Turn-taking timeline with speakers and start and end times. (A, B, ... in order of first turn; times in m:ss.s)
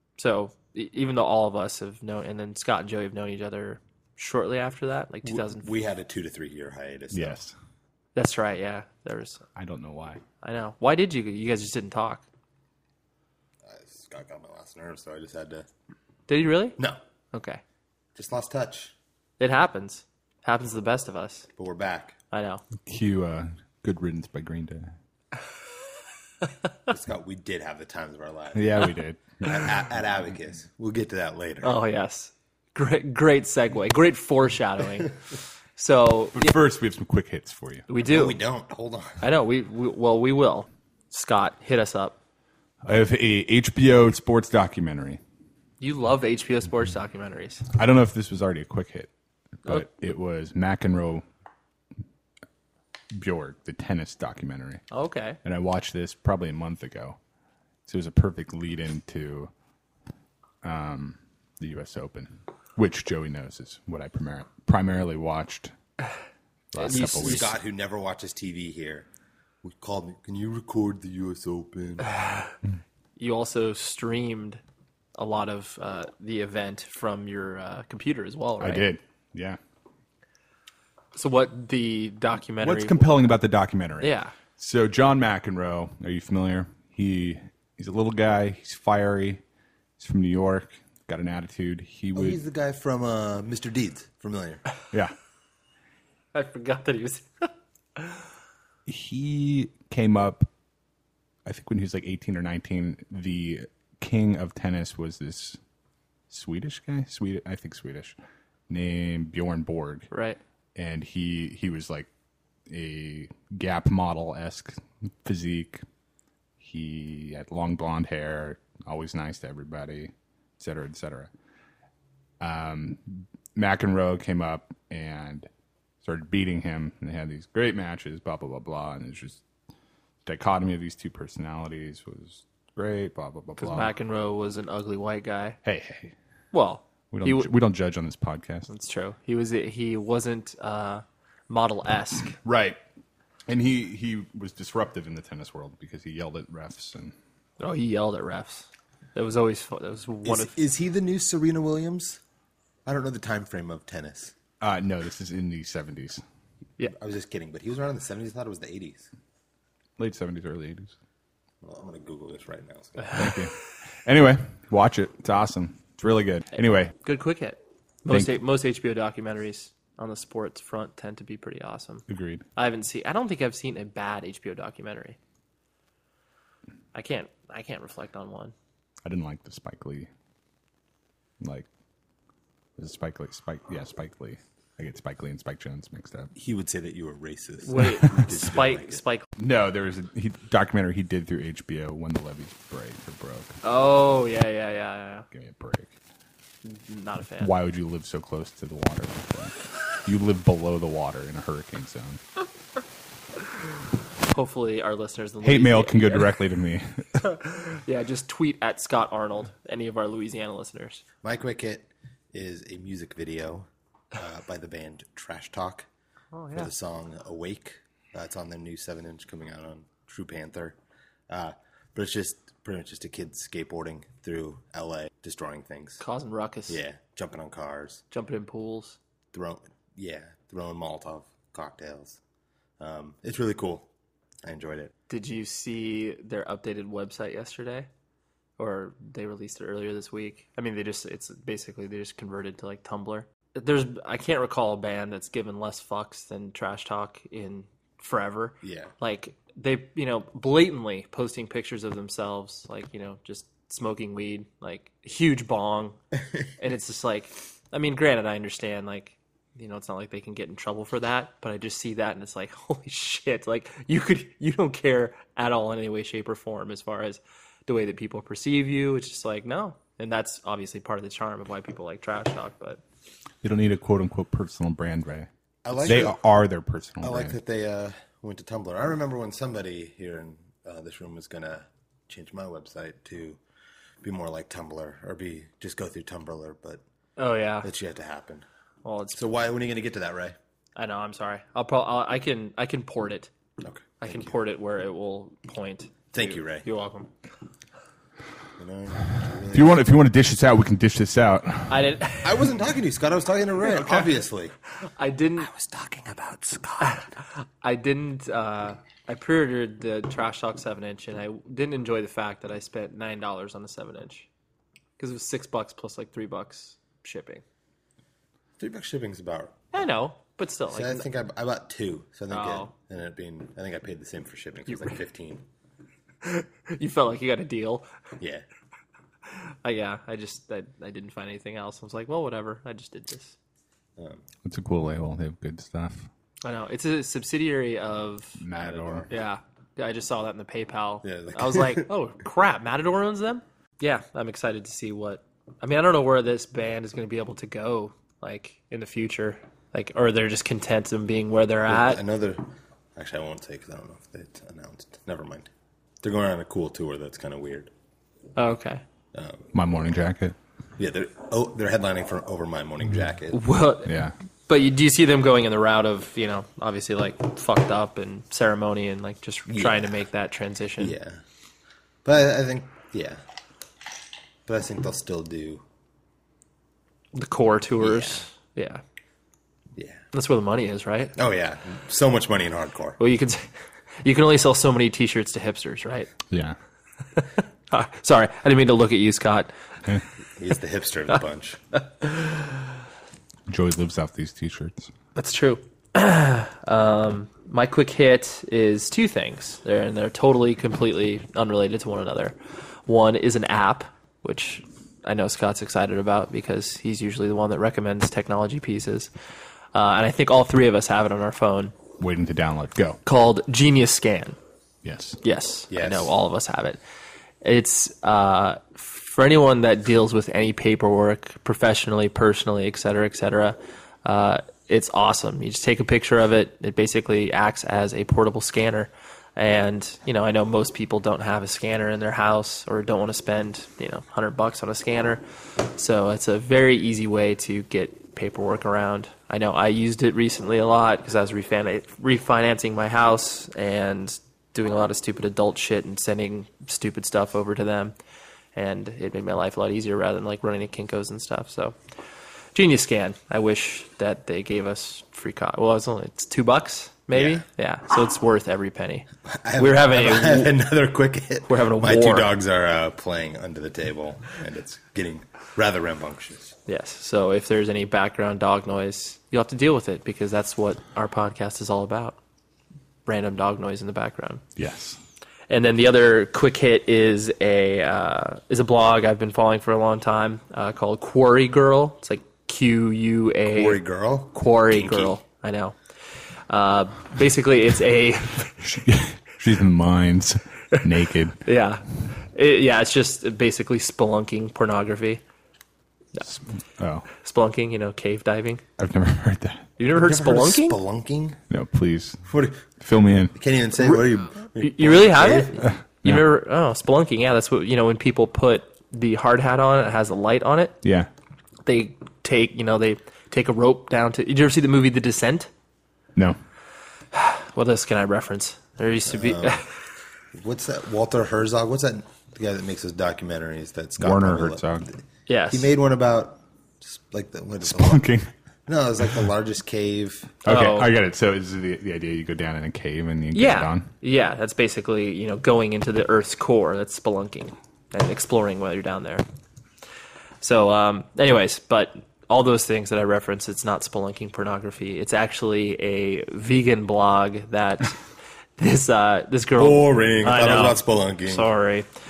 0:00.2-0:05.7 A
0:05.2-0:07.4 B
0:07.1-0:07.5 C
0:08.1-0:09.4 A
0:09.6-0:10.2 C
0:10.4-0:12.2 A
0:13.6-0:15.6 B
0:16.3-0:16.8 A
0:17.3-0:17.6 A
0:18.1-0:18.9 B
0:19.4-0:21.5 A
0:21.6-0:22.2 B
0:22.3-0:22.6 A
0:22.8-0:24.9 C
0:26.9-0:28.9 B
0:28.5-0:29.8 C
0:29.4-0:31.8 B
0:31.6-0:35.2 A
0:35.8-0:36.5 A
0:36.3-0:37.8 C
0:37.9-0:38.4 A
0:38.0-0:39.2 B
0:39.2-0:42.2 A
0:42.8-0:45.2 C
0:45.8-0:47.6 A
0:47.7-0:49.1 C
0:49.6-0:51.2 C
0:53.1-0:54.8 C
0:54.9-0:55.4 A
0:55.4-0:57.2 C
0:57.8-0:59.5 C
1:00.6-1:05.7 C
1:06.7-1:07.5 C
1:06.8-1:07.5 A
1:07.0-1:09.1 B
1:09.6-1:12.1 B
1:12.1-1:12.5 A
1:13.2-1:14.6 A
1:15.2-1:18.8 A
1:18.6-1:19.6 C
1:21.1-1:23.0 A
1:22.6-1:29.4 C
1:24.0-1:24.3 A
1:30.0-1:32.4 C
1:32.1-1:34.6 B
1:36.3-1:38.2 A
1:38.8-1:40.5 C
1:41.4-1:45.6 C
1:46.3-1:48.2 C
1:48.7-1:50.1 C
1:50.1-1:50.4 A
1:50.8-1:52.1 C
1:52.7-1:55.8 C
1:56.6-2:01.3 C
2:02.4-2:05.5 C
2:06.0-2:09.4 C
2:10.2-2:13.9 C
2:13.6-2:15.6 A
2:15.6-2:16.1 C
2:16.5-2:17.5 A
2:17.1-2:18.7 C
2:18.7-2:22.4 A
2:22.4-2:22.8 C
2:23.5-2:27.1 C
2:27.6-2:30.6 A
2:30.2-2:32.2 B
2:32.8-2:34.3 B
2:34.6-2:36.2 C
2:36.9-2:39.1 B
2:40.0-2:40.9 C
2:41.6-2:43.3 B
2:43.1-2:43.5 C
2:44.0-2:46.9 C
2:47.0-2:52.0 A
2:52.1-2:52.4 C
2:52.6-2:55.2 A
2:56.9-2:58.5 A
2:59.0-3:00.1 C
3:01.4-3:01.7 C
3:02.8-3:06.3 C
3:06.3-3:09.0 B
3:07.6-3:09.2 A
3:09.4-3:13.6 C
3:13.6-3:15.2 A
3:15.3-3:15.9 C
3:16.6-3:17.5 A
3:17.4-3:22.2 C
3:24.3-3:26.4 A
3:25.4-3:27.2 C
3:27.2-3:31.0 A
3:31.2-3:35.9 B
3:36.3-3:36.7 A
3:36.5-3:40.8 B
3:41.3-3:46.0 B
3:46.0-3:46.8 A
3:46.7-3:48.0 B
3:48.1-3:49.0 A
3:49.3-3:52.2 B
3:52.8-3:53.9 B
3:54.4-3:54.9 B
3:55.1-3:57.9 A
3:58.6-4:16.0 A
4:08.6-4:08.9 B
4:16.6-4:32.8 A
4:33.4-4:37.3 C
4:35.6-4:36.2 B
4:37.0-4:43.4 B
4:44.0-4:46.8 B
4:47.2-4:47.7 A
4:47.6-4:48.4 B
4:48.8-4:49.2 A
4:49.1-4:50.4 B
4:50.8-4:53.3 A
4:53.6-4:54.3 B
4:54.0-4:57.1 A
4:56.1-4:56.6 B
4:58.6-4:59.8 B
4:59.5-5:01.9 C
5:01.7-5:02.4 A
5:02.2-5:04.5 B
5:04.8-5:05.5 A
5:05.4-5:07.0 B
5:06.8-5:14.3 A
5:15.0-5:17.4 A
5:18.6-5:19.6 B
5:19.7-5:21.1 A
5:20.7-5:25.4 B
5:22.3-5:22.7 A
5:26.2-5:27.9 A
5:28.2-5:28.4 B
5:29.3-5:33.4 A
5:34.0-5:34.2 B
5:34.4-5:36.1 C
5:36.4-5:38.4 A
5:38.4-5:39.1 C
5:38.5-5:39.1 B
5:39.1-5:52.0 A
5:41.0-5:41.9 B
5:51.7-5:55.5 B
5:56.0-5:57.7 B
5:58.4-5:58.8 A
5:59.1-5:59.5 B
5:59.5-6:00.4 C
6:00.8-6:03.4 B
6:03.3-6:11.0 A
6:03.8-6:04.1 C
6:09.5-6:10.0 B
6:10.8-6:11.2 B
6:12.0-6:13.2 B
6:14.4-6:15.6 B
6:17.1-6:18.8 A
6:17.8-6:18.2 B
6:19.7-6:20.0 B
6:20.1-6:21.1 A
6:21.1-6:23.0 B
6:23.0-6:23.5 A
6:24.0-6:26.1 A
6:26.3-6:26.6 C
6:27.2-6:29.5 A
6:30.4-6:31.6 B
6:31.8-6:32.6 A
6:33.5-6:34.9 C
6:35.1-6:49.1 A
6:49.7-6:51.7 A
6:52.0-6:53.0 C
6:53.0-6:54.4 A
6:54.8-6:55.2 C
6:55.2-6:56.8 A
6:55.7-6:56.1 B
6:57.4-7:27.9 A
7:28.5-7:31.8 A
7:32.5-7:40.5 A
7:37.1-7:37.4 B
7:39.2-7:46.6 B
7:41.4-7:42.3 A
7:46.7-7:52.2 A
7:53.0-7:54.4 A
7:54.6-7:55.0 C
7:55.5-8:05.8 A
8:03.5-8:05.2 B
8:06.5-8:08.6 A
8:08.6-8:11.4 C
8:11.4-8:15.2 A
8:16.2-8:17.1 C
8:17.1-8:18.6 A
8:18.8-8:19.7 C
8:19.8-8:20.8 A
8:19.9-8:21.4 B
8:21.5-8:22.2 C
8:22.2-8:22.6 B
8:22.8-8:23.3 C
8:23.3-8:25.6 B
8:24.6-8:30.8 A
8:30.8-8:31.1 C
8:31.6-8:35.5 A
8:37.1-8:39.7 A
8:39.0-8:39.6 B
8:40.3-8:44.6 B
8:44.0-8:44.9 C
8:45.3-8:45.7 A
8:45.5-8:48.1 B
8:47.6-8:48.3 C
8:48.7-8:50.3 B
8:50.4-8:53.9 C
8:50.4-8:50.9 A
8:53.3-8:59.2 A
9:00.4-9:08.0 A
9:08.6-9:11.9 A
9:09.6-9:11.5 B